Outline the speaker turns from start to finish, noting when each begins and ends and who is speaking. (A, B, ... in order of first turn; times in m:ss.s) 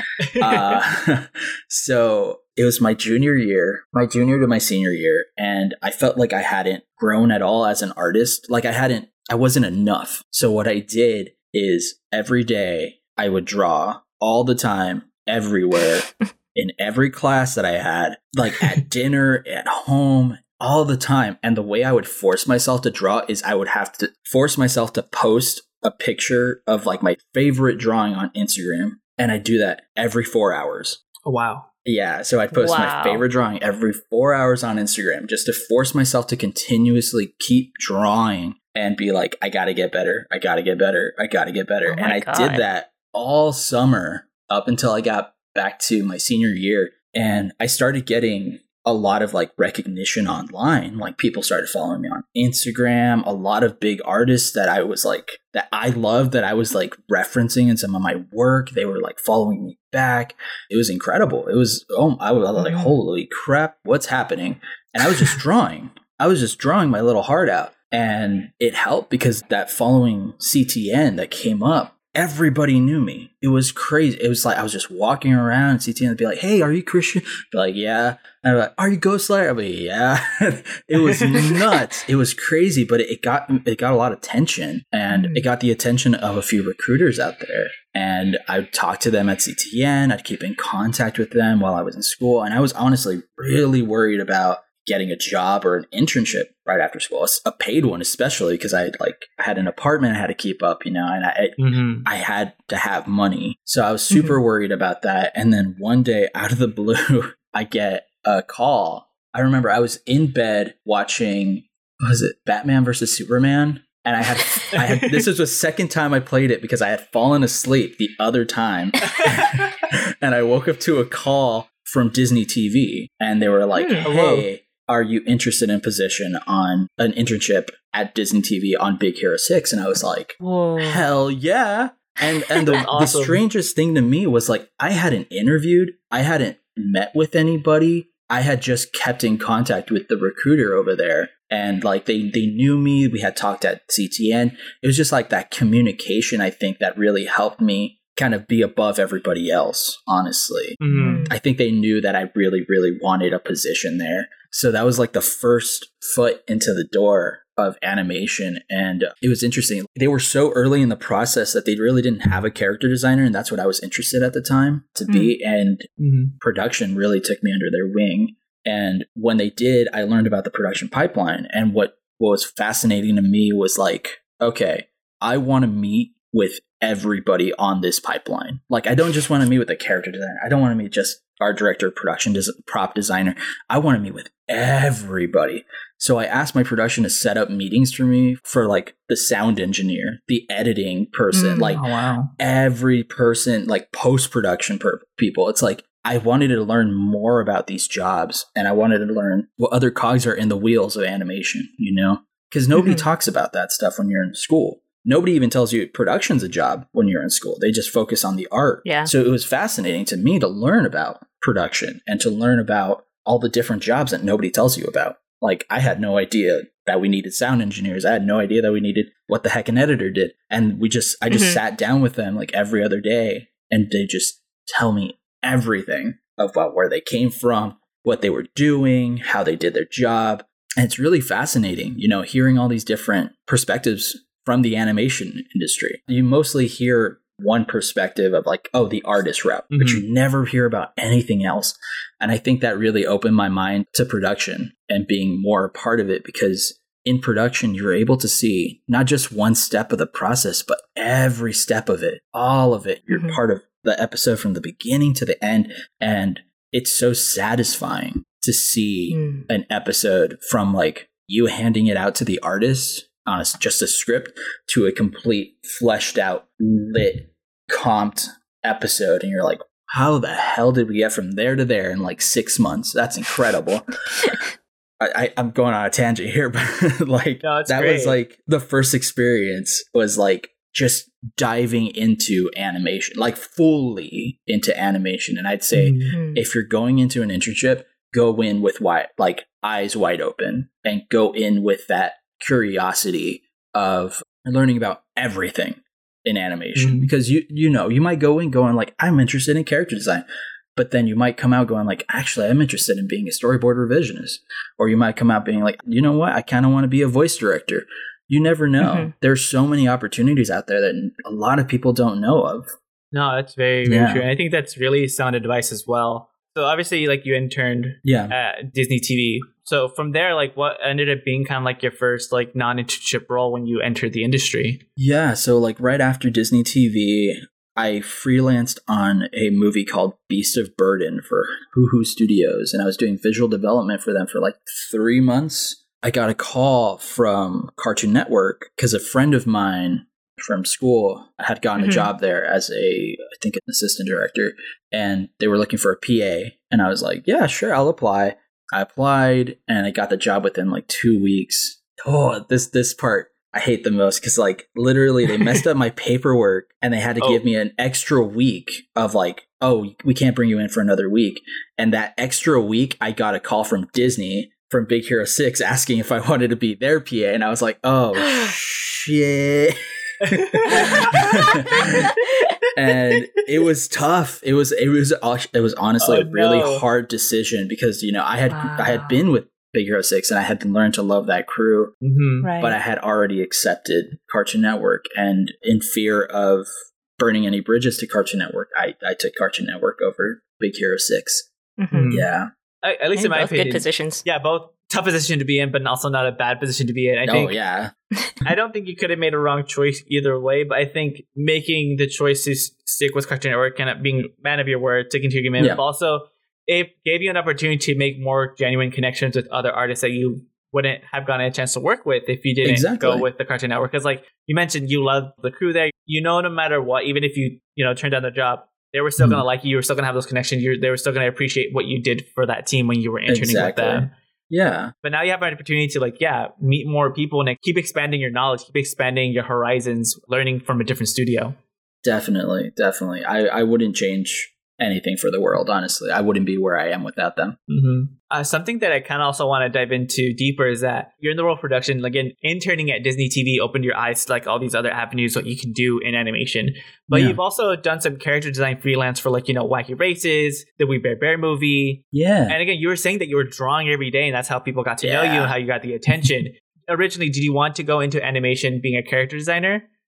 0:00.2-0:00.8 A
0:00.4-0:31.0 B
0:31.2-0:31.7 A
0:31.8-2:45.9 B
0:32.5-0:33.2 C
0:41.9-0:42.6 C
1:02.6-1:02.9 C
1:21.0-1:21.6 A
1:25.1-1:25.4 C
1:41.6-1:42.1 A
1:54.8-1:55.2 A
2:03.8-2:04.1 C
2:04.0-2:04.5 A
2:10.4-2:11.0 C
2:12.7-2:13.4 A
2:30.8-2:31.3 A
2:31.0-2:31.3 C
2:45.1-2:45.3 C
2:46.0-2:46.4 A
2:46.4-3:11.9 B
3:11.3-3:11.8 C
3:11.8-3:12.3 A
3:12.4-4:34.4 B
3:22.8-3:23.0 C
3:28.8-3:29.1 C
3:41.3-3:41.6 C
3:59.7-4:00.0 A
4:13.1-4:13.4 C
4:19.1-4:19.4 C
4:35.0-5:00.2 B
4:37.4-4:38.2 A
4:45.7-4:46.2 A
4:46.1-4:46.4 C
4:56.8-4:57.1 A
5:00.8-5:12.7 B
5:08.8-5:09.1 C
5:13.1-5:24.8 A
5:13.9-5:14.2 B
5:18.0-5:18.4 B
5:25.0-6:12.1 B
5:41.8-5:42.1 C
6:10.3-6:12.2 A
6:12.7-6:21.9 B
6:16.0-6:16.8 A
6:18.5-6:19.2 C
6:22.0-6:22.5 A
6:22.4-6:22.8 C
6:22.6-6:31.5 B
6:31.8-6:32.1 C
6:31.9-6:32.3 A
6:32.1-6:32.5 B
6:32.8-6:37.6 A
6:33.2-6:34.2 C
6:37.3-6:37.9 B
6:38.4-7:04.1 A
6:52.6-6:53.3 B
7:03.3-7:04.9 B
7:05.0-7:11.6 A
7:12.0-7:17.6 B
7:17.7-7:39.9 A
7:27.1-7:27.4 B
7:32.1-7:32.6 B
7:35.0-7:35.5 B